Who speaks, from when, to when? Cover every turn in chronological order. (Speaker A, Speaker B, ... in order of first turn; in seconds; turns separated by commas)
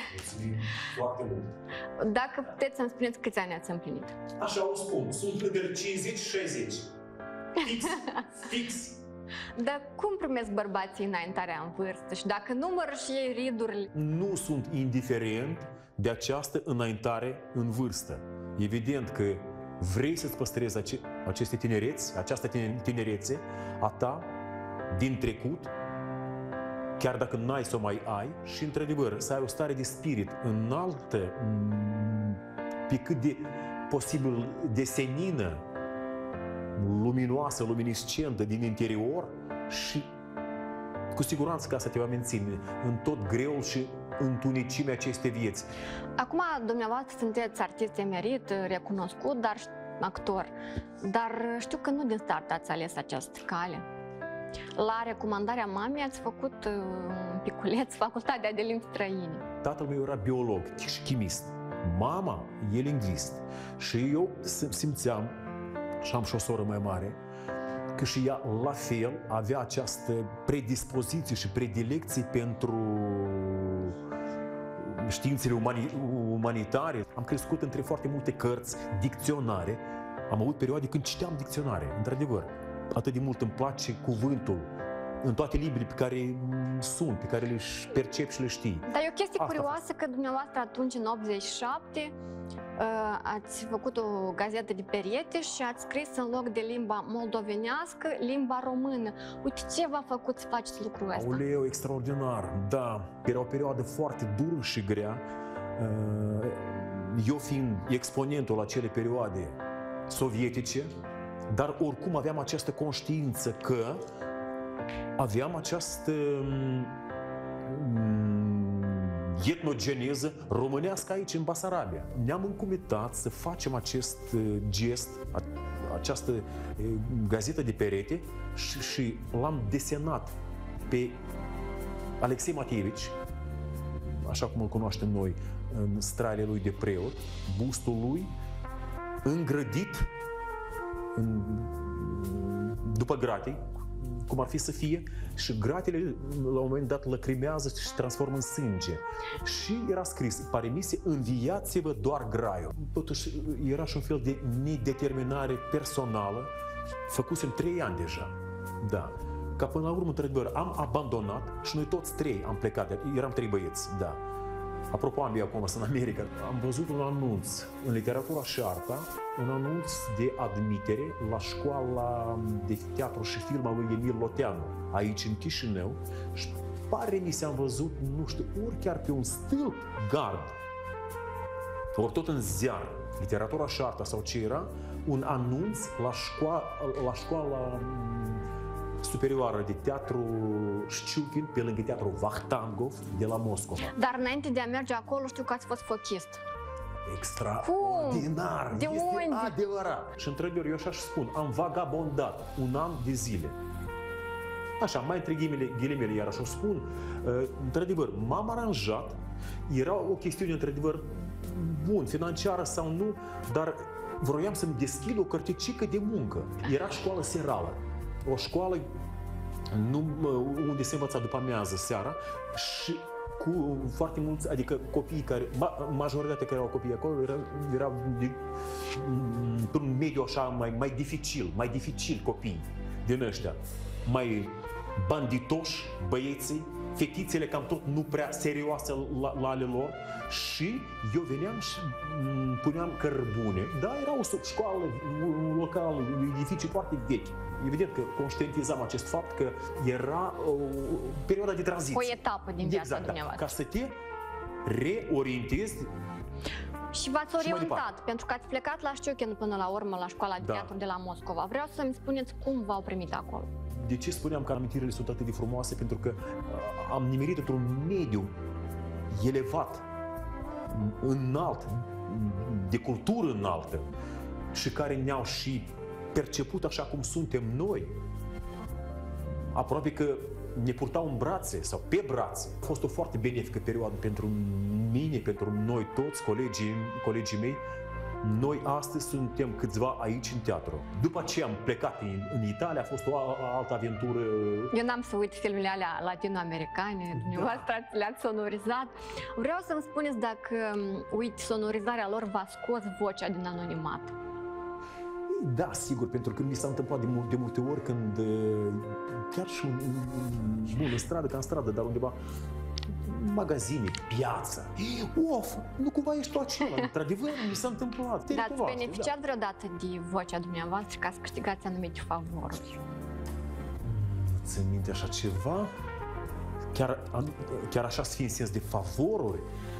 Speaker A: 0.1-1.5, Speaker B: 2.0-4.2, Speaker A: 4.4-6.9, Speaker A: 7.6-9.0, Speaker B: 9.6-13.9, Speaker A: 13.9-24.3, Speaker A: 24.9-25.7, Speaker A: 27.0-35.6, Speaker A: 36.7-40.1, Speaker A: 41.1-45.7, Speaker B: 46.2-53.8, Speaker B: 54.8-59.4, Speaker A: 59.6-65.4, Speaker A: 66.0-67.2, Speaker A: 67.9-74.0, Speaker A: 74.8-84.7, Speaker A: 85.2-89.8, Speaker B: 88.9-92.1, Speaker B: 92.8-101.4, Speaker A: 101.1-105.2, Speaker A: 105.8-110.9, Speaker A: 111.5-114.0, Speaker A: 115.2-117.0, Speaker A: 117.6-130.3, Speaker A: 130.9-131.2, Speaker A: 132.2-133.1, Speaker A: 134.1-138.3, Speaker A: 139.2-140.1, Speaker A: 141.1-156.5, Speaker A: 157.1-164.2, Speaker A: 164.9-180.6, Speaker A: 181.9-188.4, Speaker A: 189.0-193.9, Speaker B: 193.9-196.4, Speaker A: 197.1-203.6, Speaker B: 197.6-199.5, Speaker A: 204.8-218.9, Speaker A: 219.7-228.4, Speaker A: 228.9-254.0, Speaker B: 251.9-253.5, Speaker A: 254.6-255.9, Speaker B: 256.9-263.5, Speaker A: 257.3-257.8, Speaker A: 260.4-260.7, Speaker A: 263.7-268.3, Speaker A: 269.1-269.9, Speaker A: 270.7-273.9, Speaker A: 274.5-278.0, Speaker A: 279.5-287.7, Speaker A: 288.2-294.7, Speaker B: 294.7-304.1, Speaker A: 297.1-297.7, Speaker A: 305.3-312.2, Speaker A: 313.0-319.1, Speaker B: 318.3-322.8, Speaker A: 323.8-325.7, Speaker A: 326.7-329.5